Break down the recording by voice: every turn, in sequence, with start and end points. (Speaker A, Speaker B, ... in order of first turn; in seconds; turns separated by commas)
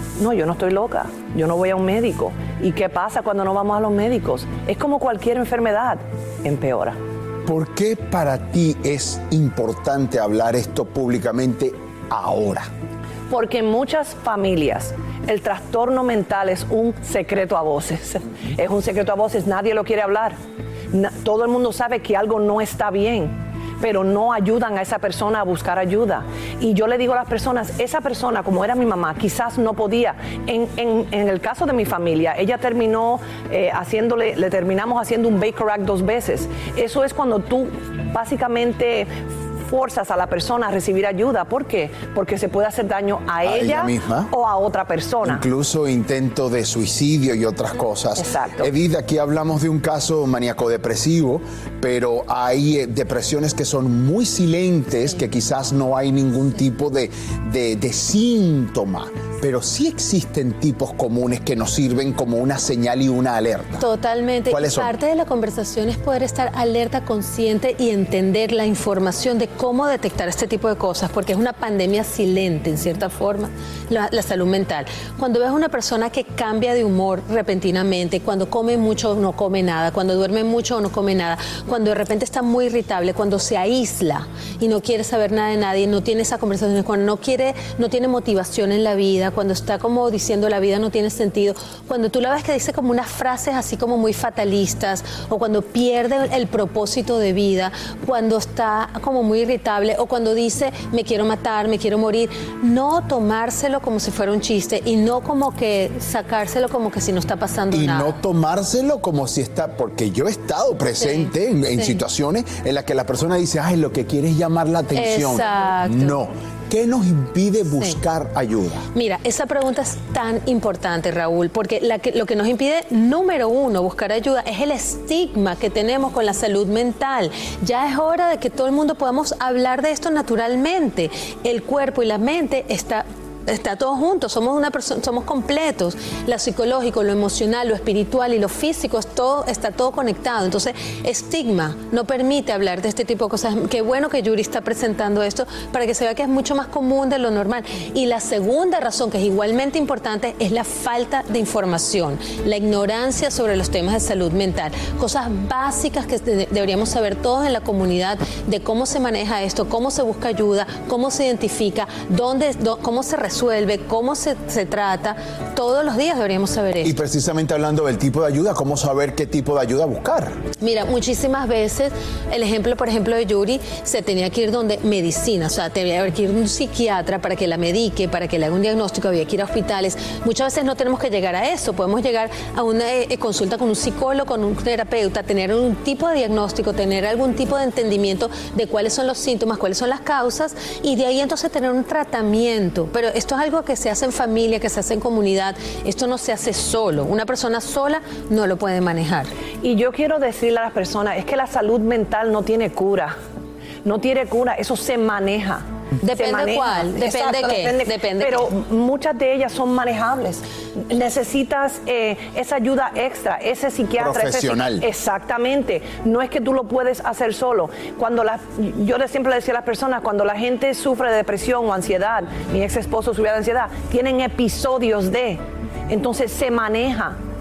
Speaker A: 0.2-7.0, Speaker B: 7.4-12.7, Speaker A: 13.3-20.4, Speaker A: 20.9-45.4, Speaker B: 43.4-44.3, Speaker B: 45.2-63.9, Speaker A: 48.2-48.7, Speaker C: 63.8-108.2, Speaker B: 64.5-64.9, Speaker B: 107.7-118.9, Speaker C: 111.0-112.0, Speaker C: 114.9-116.2, Speaker C: 118.9-166.9, Speaker B: 166.8-170.4, Speaker C: 170.6-199.3, Speaker A: 199.6-203.2, Speaker A: 203.8-227.2, Speaker C: 206.0-208.5, Speaker B: 214.0-214.8